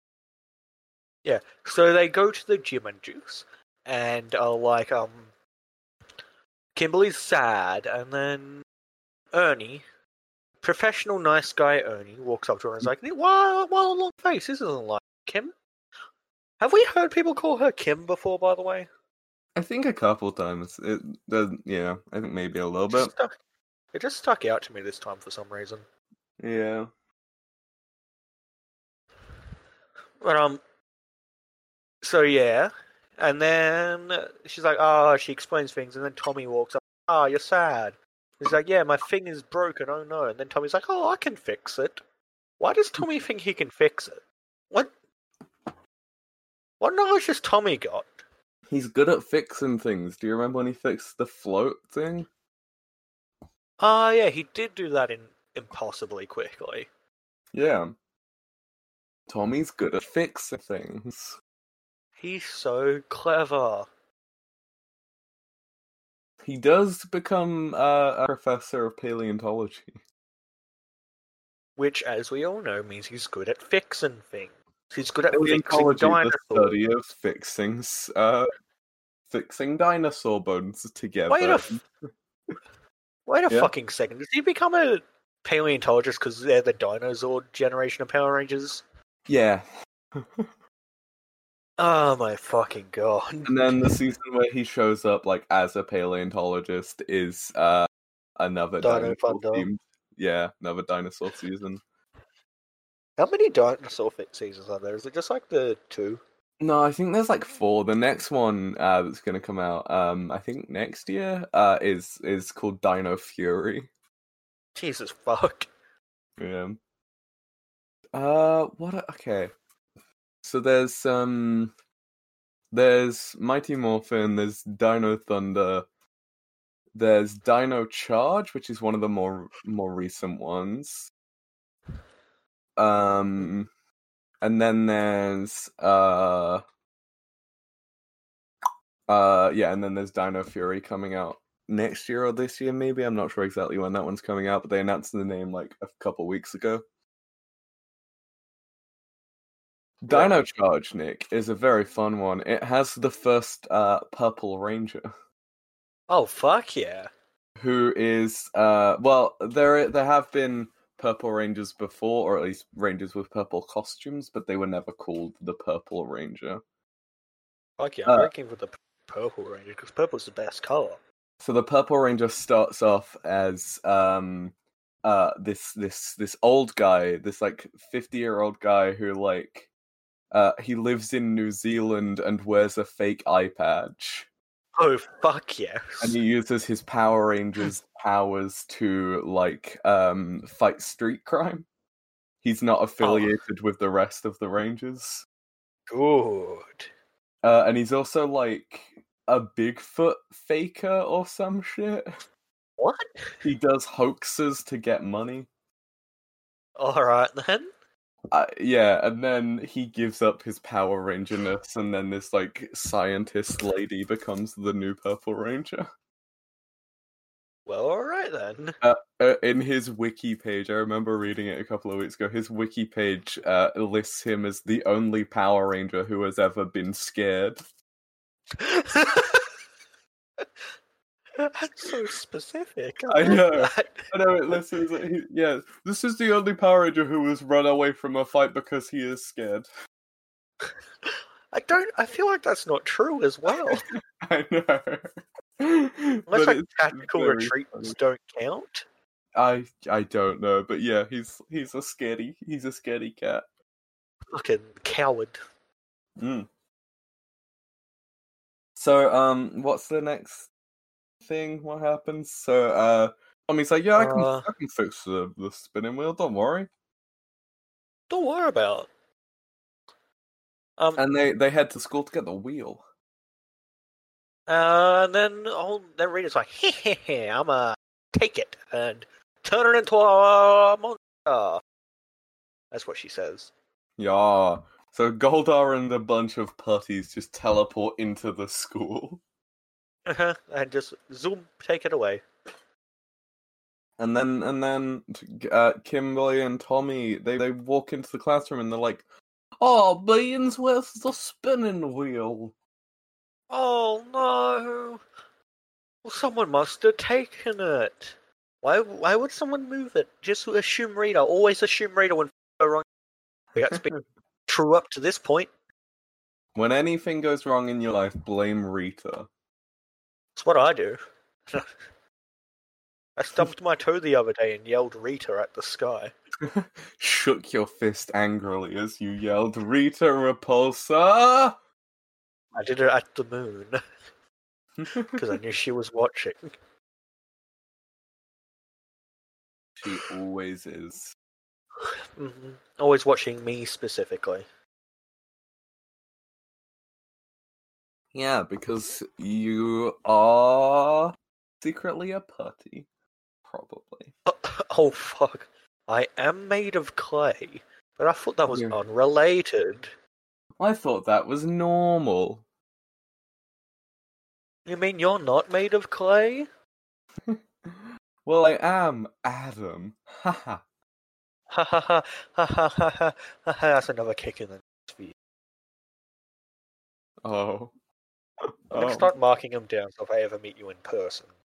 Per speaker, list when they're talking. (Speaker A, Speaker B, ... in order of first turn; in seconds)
Speaker A: 1.2-5.3, 6.7-8.6, 9.3-9.8, 10.6-15.5, 16.6-18.9, 22.9-23.4, 23.9-25.8, 30.2-30.6, 32.0-42.0, 42.6-44.9, 46.8-48.1, 53.8-56.9, 62.2-63.9, 71.8-76.8, 81.3-81.8, 83.3-88.8, 91.8-94.0, 98.8-99.7, 103.2-106.2, 114.8-115.7, 150.1-150.4, 156.1-157.1, 167.8-171.0, 184.8-186.2, 193.0-193.3, 195.9-196.9, 202.8-203.1, 206.8-207.7, 217.7-218.8, 228.6-229.5, 231.4-234.6, 241.1-243.9, 246.3-248.8, 254.3-255.4, 264.0-264.5, 268.1-268.9, 274.5-281.6, 282.7-283.5, 290.1-292.2, 303.5-305.0, 306.0-312.9, 313.5-313.9, 314.5-315.5, 320.4-321.0, 323.2-326.1, 332.5-333.8, 335.1-336.5, 342.2-344.4, 354.2-359.9, 364.6-366.5, 371.5-375.1, 378.7-381.3
Speaker B: 19.6-23.1, 26.4-26.9, 48.7-52.3, 57.5-57.9, 59.3-61.4, 66.4-70.0, 75.3-78.5, 79.3-81.8, 89.3-90.5, 93.4-97.9, 98.4-101.8, 106.6-113.9, 116.4-116.8, 118.1-119.5, 120.4-121.7, 122.7-125.8, 126.9-131.1, 132.8-133.7, 134.4-136.6, 139.1-146.8, 150.0-155.1, 157.6-166.6, 171.4-174.5, 175.1-179.7, 180.3-184.3, 186.0-191.7, 192.4-195.2, 197.4-202.1, 203.4-205.5, 208.3-215.9, 218.8-227.7, 233.1-239.7, 243.5-247.9, 249.4-253.4, 256.2-256.5, 258.8-260.5, 261.2-266.7, 271.0-272.8, 284.0-289.2, 294.0-299.0, 299.6-302.5, 313.7-314.0, 316.5-319.3, 326.4-331.6, 334.8-335.4, 339.8-341.1, 348.1-352.9, 353.5-354.1, 358.5-358.8, 360.6-362.4, 367.2-370.6, 377.2-377.7, 378.4-379.1